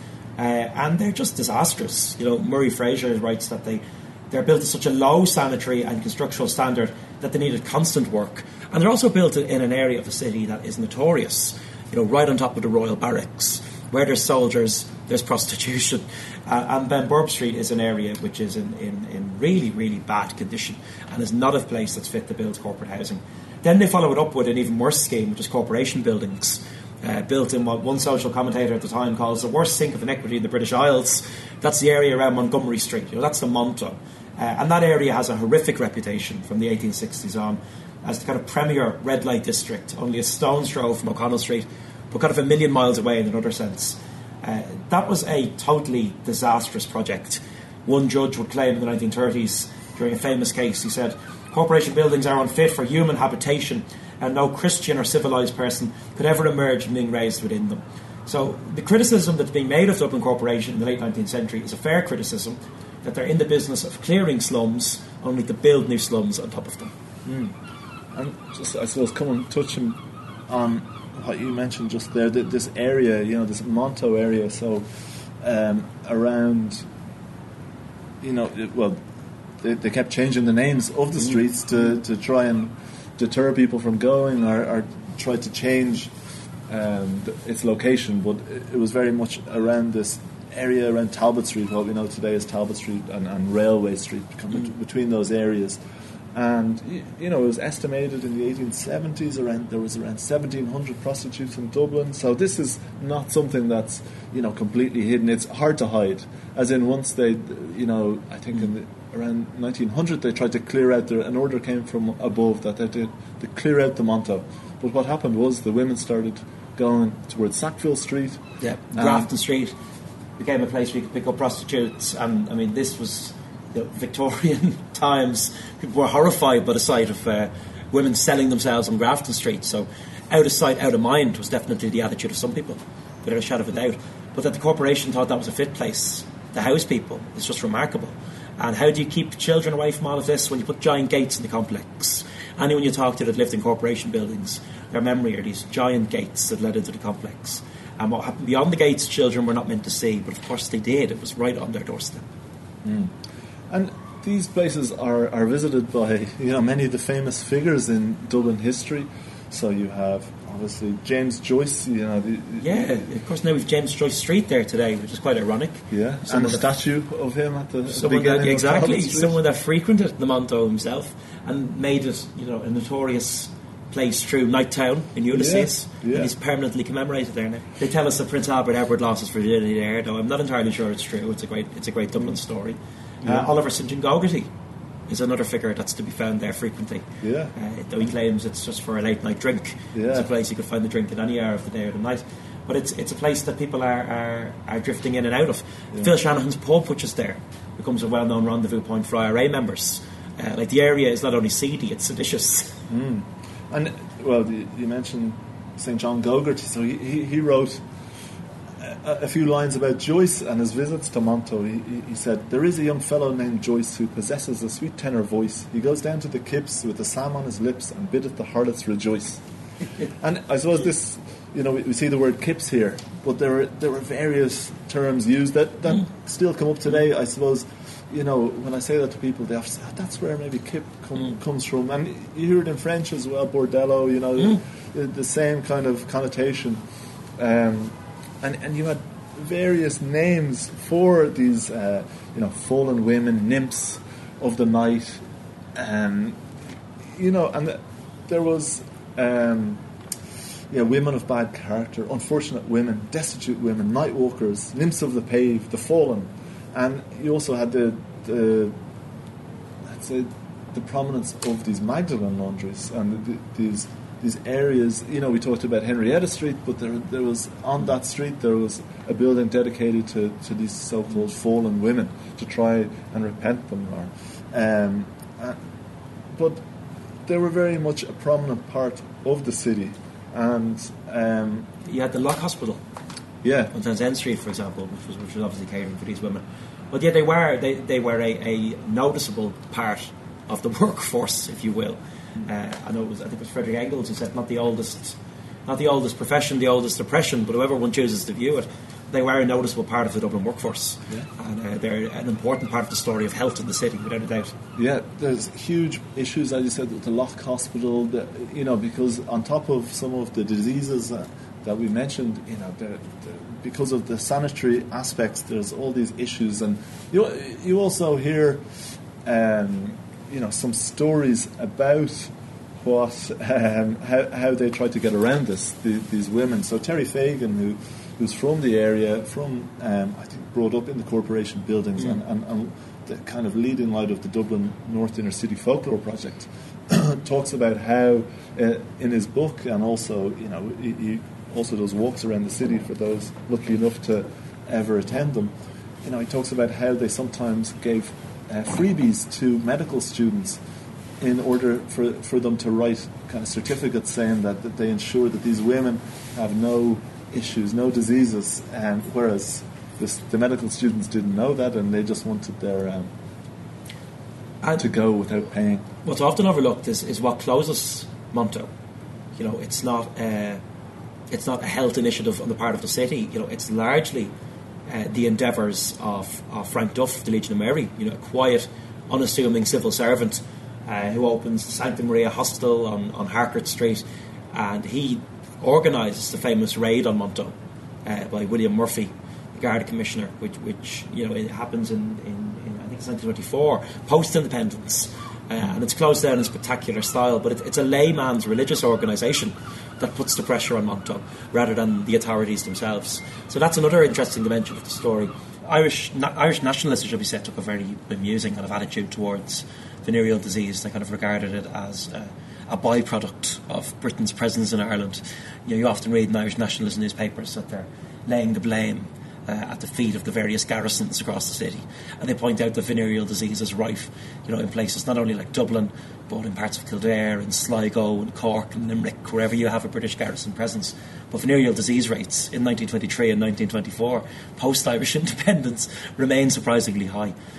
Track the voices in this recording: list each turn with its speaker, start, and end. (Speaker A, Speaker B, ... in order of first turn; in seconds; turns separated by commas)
Speaker A: 0.4-66.9, Speaker B: 67.2-67.5, Speaker B: 68.1-74.9, Speaker B: 75.4-76.9, Speaker B: 78.2-79.0, Speaker B: 79.6-86.1, Speaker B: 86.7-95.8, Speaker B: 96.3-118.4, Speaker A: 118.6-119.7, Speaker B: 118.9-119.3, Speaker A: 120.4-152.2, Speaker B: 152.8-153.1, Speaker B: 153.7-163.0, Speaker A: 162.6-166.7, Speaker B: 165.9-169.4, Speaker A: 167.9-184.5, Speaker B: 175.3-176.3, Speaker A: 185.1-202.8, Speaker B: 187.2-187.5, Speaker B: 189.9-190.3, Speaker B: 202.9-207.8, Speaker B: 208.8-219.4, Speaker B: 220.2-236.8, Speaker B: 237.4-245.2, Speaker B: 245.8-246.4, Speaker B: 247.1-249.8, Speaker B: 250.7-258.8, Speaker B: 259.9-275.6, Speaker B: 276.3-276.6, Speaker B: 277.3-281.7, Speaker A: 281.9-282.8, Speaker B: 283.4-283.7, Speaker A: 283.7-304.6, Speaker B: 304.8-318.6, Speaker B: 319.2-350.6, Speaker B: 351.2-363.1, Speaker B: 364.8-365.9, Speaker A: 366.0-368.7, Speaker A: 369.4-370.6, Speaker A: 371.3-374.3, Speaker A: 374.9-437.3